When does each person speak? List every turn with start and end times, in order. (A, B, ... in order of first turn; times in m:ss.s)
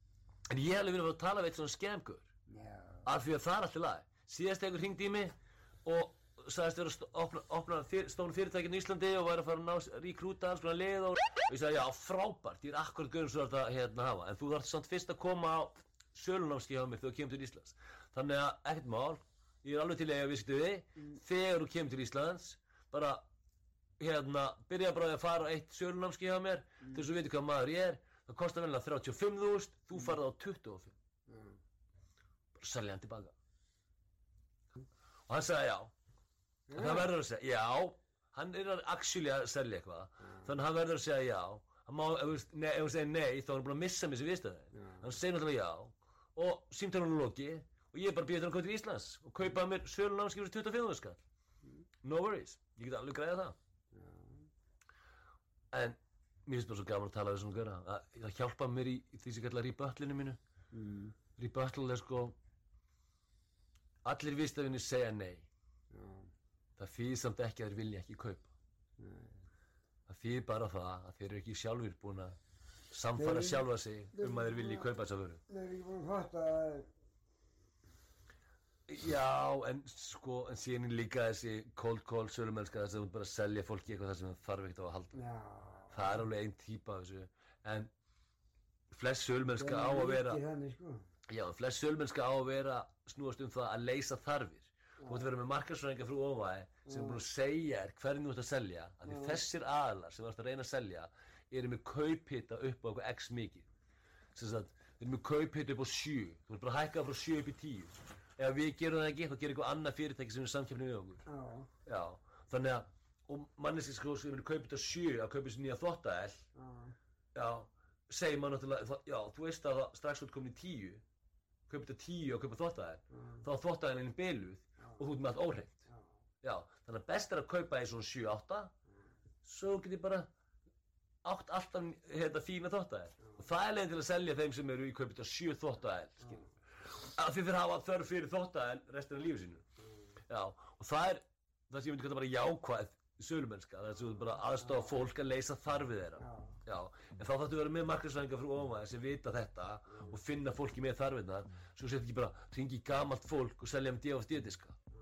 0:00.5-0:02.3 A
0:02.5-0:03.1 B
0:03.0-0:23.2 A
0:24.0-0:30.9 A
0:31.3-0:31.6 B
0:32.6-0:33.3 A
0:35.3-0:35.9 A
0:36.7-0:37.1 B
0:36.7-0:51.2 A
0:44.7-0:45.1 B
0:52.0-0:53.6 A
0:53.9-0:54.4 B
0:55.7-1:00.4 A
1:00.7-1:01.2 B
1:01.4-1:02.4 A
1:04.0-1:05.5 A
1:05.9-1:06.3 B
1:06.8-1:08.5 A
1:09.0-1:09.4 B
1:10.1-1:12.4 A
1:12.9-1:15.4 A
1:13.1-1:14.9 B
1:15.5-1:16.9 B
1:18.9-1:25.2 A
1:25.1-1:26.2 B
1:25.9-1:27.9 A
1:28.9-1:30.4 A
1:29.5-1:31.0 B
1:31.3-1:43.7 A
1:35.0-1:35.3 B
1:36.8-1:37.2 B
1:39.0-1:39.4 B
1:44.3-1:51.2 A
1:51.2-1:51.7 B
1:51.8-1:56.5 A
1:56.5-1:57.0 B
1:57.3-2:01.0 A
2:01.7-2:05.8 A
2:03.1-2:03.4 B
2:06.4-2:08.7 A
2:09.4-2:10.3 A
2:11.2-2:19.6 A
2:16.2-2:16.5 B
2:20.3-2:34.8 A
2:24.6-2:25.1 B
2:26.2-2:26.6 B